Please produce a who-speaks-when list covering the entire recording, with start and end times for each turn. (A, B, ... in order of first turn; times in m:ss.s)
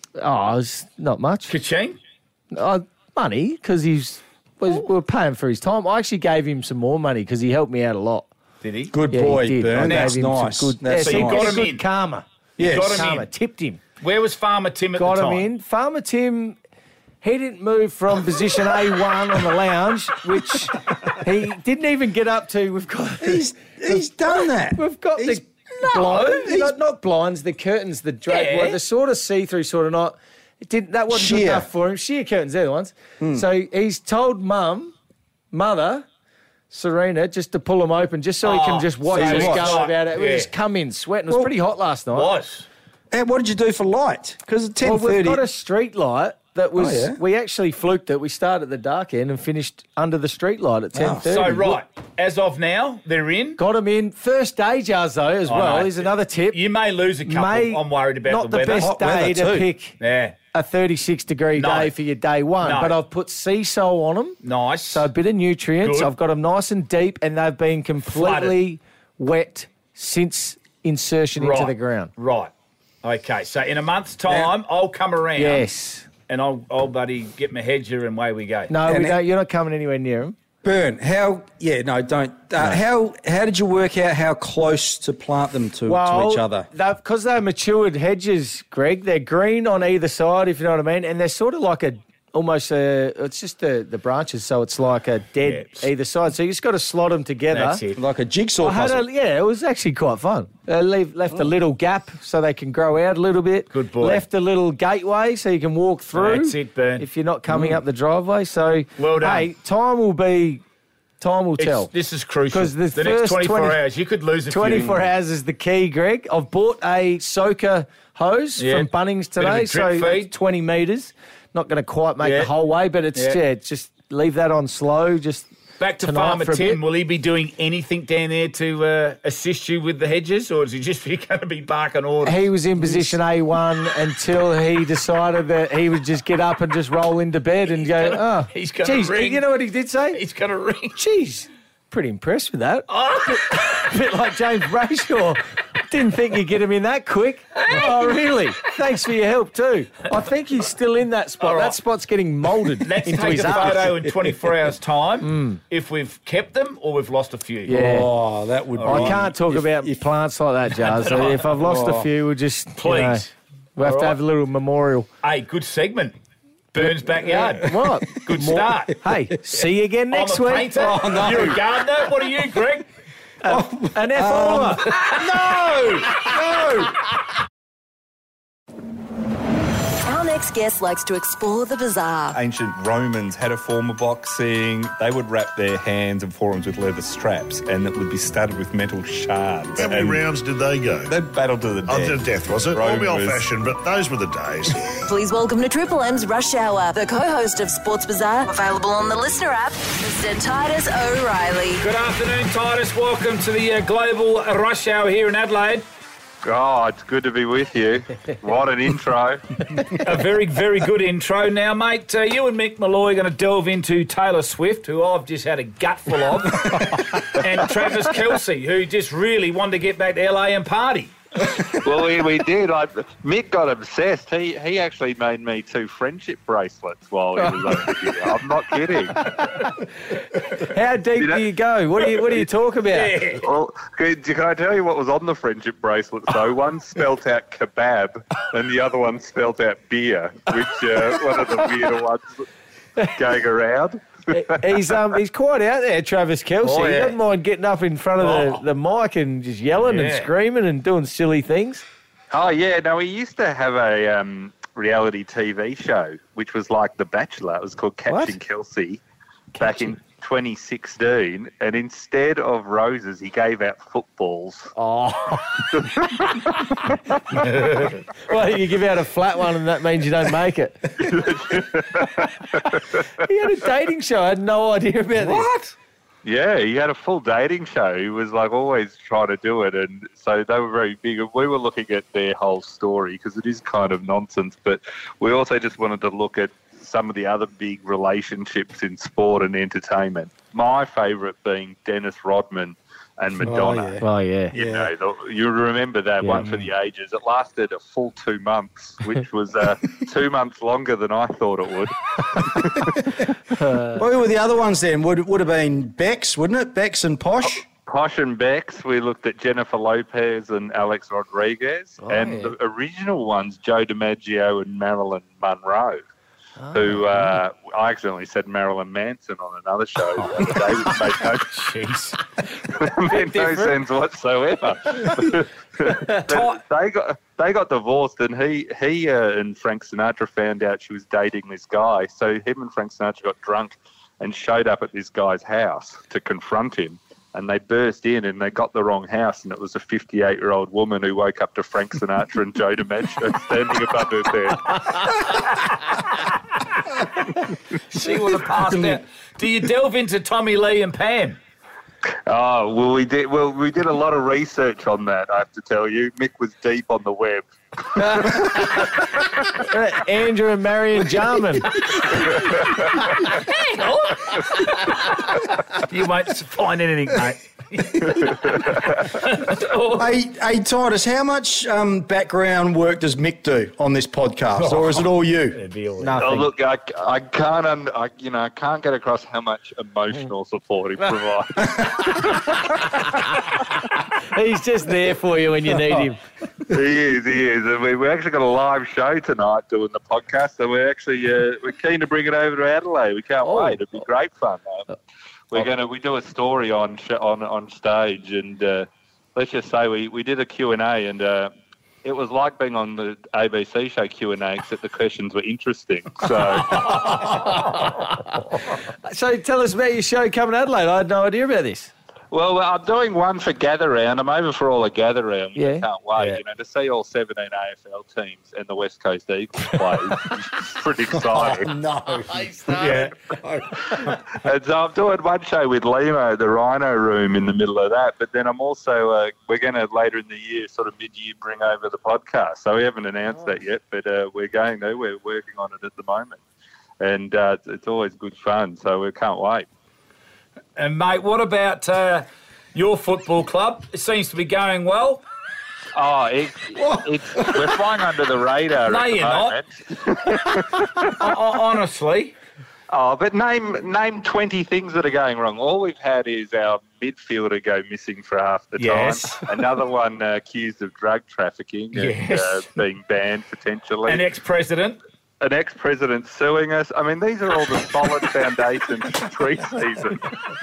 0:00.2-0:01.6 A
0:01.5-0:02.0 B
0:02.5-0:08.3 A
0:08.6-0:08.9 B
0:08.9-0:11.6 C
0:09.1-0:13.8 A
0:09.8-0:10.2 B
0:11.0-0:11.8 B
0:12.6-0:13.0 C
0:12.6-0:13.3 B
0:14.0-0:15.4 B
0:15.0-0:16.6 A
0:17.2-0:34.9 A
0:23.2-0:25.4 C
0:25.9-0:26.8 C
0:28.3-0:28.8 B
0:31.1-0:31.7 C
0:35.5-0:36.1 A
0:36.7-0:42.3 A
0:38.4-0:40.5 B
0:39.1-0:39.8 C
0:42.1-0:42.7 B
0:43.1-0:45.4 C
0:44.8-0:51.8 A
0:46.8-0:47.2 C
0:50.9-0:51.3 C
0:51.2-0:53.6 B
0:53.6-0:56.6 A
0:55.5-0:58.9 B
0:57.3-1:00.0 A
0:58.8-0:59.7 C
1:00.0-1:00.4 B
1:00.5-1:04.4 A
1:01.6-1:01.9 B
1:02.6-1:03.0 B
1:04.4-1:05.1 B
1:04.9-1:12.1 A
1:05.8-1:06.1 B
1:08.1-1:08.6 B
1:11.4-1:12.5 B
1:13.0-1:15.6 B
1:15.4-1:16.1 A
1:16.3-1:18.7 B
1:18.7-1:20.4 A
1:18.9-1:19.2 C
1:20.6-1:26.7 C
1:25.9-1:37.8 A
1:35.4-1:35.9 B
1:37.5-1:38.0 B
1:37.9-1:39.0 C
1:38.6-1:50.6 A
1:43.7-1:44.2 B
1:46.1-1:47.7 B
1:49.0-1:49.5 B
1:51.2-1:51.9 A
1:51.6-1:55.0 B
1:52.5-1:53.8 A
1:54.5-2:05.5 A
1:58.6-2:00.3 B
2:02.2-2:02.5 B
2:05.8-2:13.2 B
2:06.0-2:06.8 A
2:12.2-2:20.2 A
2:17.8-2:19.4 B
2:20.1-2:21.0 B
2:21.0-2:33.9 A
2:22.9-2:23.6 B
2:27.6-2:28.3 B
2:31.4-2:31.8 B
2:32.8-2:37.9 B
2:33.4-2:34.3 C
2:35.2-2:35.6 A
2:37.7-2:38.1 A
2:37.7-2:40.0 C
2:38.8-2:39.2 B
2:38.8-2:43.3 A
2:40.9-2:41.4 B
2:41.5-2:42.1 C
2:42.8-2:43.3 B
2:43.8-2:45.1 A
2:43.8-2:44.2 B
2:45.2-2:46.2 B
2:46.7-2:49.0 B
2:47.2-2:51.0 A
2:50.1-2:52.9 B
2:50.8-2:51.6 C
2:53.4-2:55.0 A
2:53.4-2:56.4 C
2:56.2-2:56.9 A
3:00.0-3:02.4 D
3:02.4-3:10.2 E
3:09.8-3:11.2 F
3:11.1-3:13.5 E
3:11.9-3:14.9 F
3:15.1-3:21.8 D
3:21.8-3:25.8 B
3:26.4-3:29.4 G
3:30.0-3:41.1 B
3:41.8-3:49.2 G
3:47.4-3:47.9 A
3:50.6-3:53.2 A
3:51.2-3:51.4 G
3:52.9-3:53.4 B
3:53.4-4:02.4 G
4:03.2-4:04.8 G
4:04.3-4:11.8 A
4:06.6-4:07.2 B
4:08.2-4:08.6 B
4:09.8-4:10.3 B
4:12.3-4:19.0 G
4:18.1-4:18.4 A
4:19.6-4:24.7 G
4:24.8-4:25.4 A
4:25.8-4:26.5 G
4:27.4-4:28.0 B
4:28.3-4:30.8 A
4:31.0-4:33.0 G
4:33.2-4:35.5 A
4:35.2-4:35.7 C
4:36.2-4:54.0 G
4:53.4-4:54.0 C
4:54.0-4:54.6 A
4:54.5-5:03.0 G
4:54.5-4:54.9 C
4:56.2-4:56.7 A
5:03.5-5:04.0 A
5:03.9-5:07.6 C
5:07.4-5:16.1 G
5:12.0-5:12.5 A
5:16.6-5:17.4 A
5:16.7-5:21.6 G
5:21.5-5:22.2 B
5:22.8-5:45.1 G
5:23.1-5:23.8 A
5:26.3-5:26.6 B
5:47.9-5:51.4 B
5:52.3-5:59.5 G
5:58.0-5:58.9 A
5:59.6-6:01.8 A
6:02.6-6:02.9 G
6:03.4-6:10.0 B
6:09.9-6:15.6 C
6:14.6-6:16.4 B
6:16.0-6:16.4 A
6:16.1-6:22.9 G
6:24.2-6:26.2 A
6:26.7-6:34.9 G
6:33.4-6:33.8 A
6:35.5-6:41.5 G
6:42.0-6:47.2 G
6:47.5-6:47.9 A
6:49.1-6:51.9 A
6:52.3-7:01.7 G
6:55.6-6:55.9 A
7:01.2-7:02.5 C
7:02.7-7:03.1 B
7:04.0-7:16.4 G
7:17.0-7:19.7 G
7:20.8-7:25.2 B
7:26.0-7:31.2 G
7:26.8-7:27.7 C
7:28.9-7:29.6 B
7:31.2-7:32.3 B
7:32.9-7:44.2 G
7:38.8-7:39.5 B
7:41.9-7:42.6 B
7:44.1-7:45.0 B
7:45.4-7:50.3 G